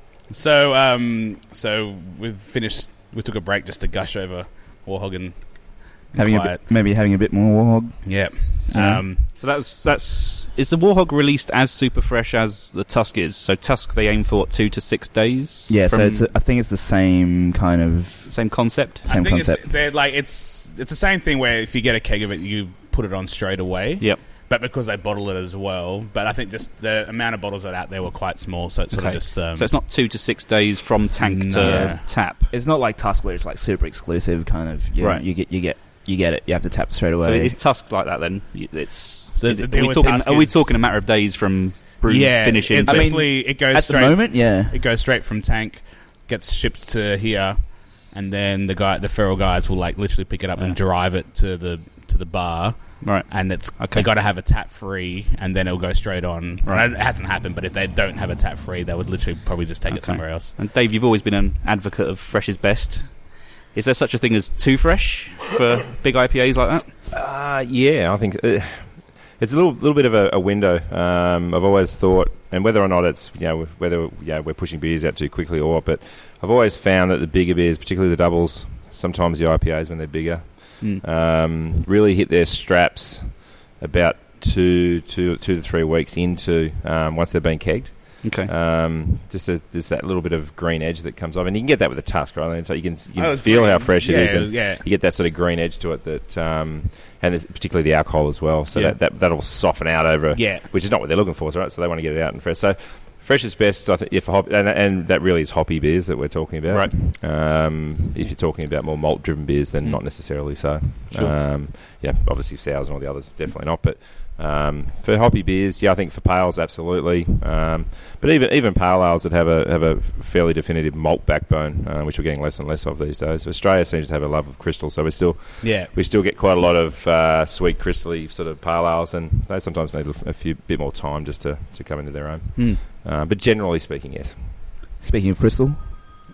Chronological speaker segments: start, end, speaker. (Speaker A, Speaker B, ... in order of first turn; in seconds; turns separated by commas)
Speaker A: 0.3-6.6, Speaker B: 6.1-9.0, Speaker A: 8.0-9.3, Speaker C: 9.3-16.2, Speaker B: 15.7-19.8, Speaker C: 18.3-19.1, Speaker A: 19.0-29.7, Speaker C: 28.9-32.5, Speaker A: 31.2-32.0, Speaker B: 31.6-37.6, Speaker C: 35.0-35.2, Speaker C: 37.2-43.1, Speaker A: 39.4-40.8, Speaker A: 42.0-60.5, Speaker B: 42.8-44.8, Speaker C: 53.0-54.1, Speaker C: 56.6-56.9, Speaker C: 59.9-66.9, Speaker D: 67.1-134.4, Speaker C: 88.2-88.5, Speaker A: 93.2-94.8, Speaker A: 100.3-100.7, Speaker C: 106.7-107.0, Speaker A: 125.6-125.9, Speaker B: 135.0-135.8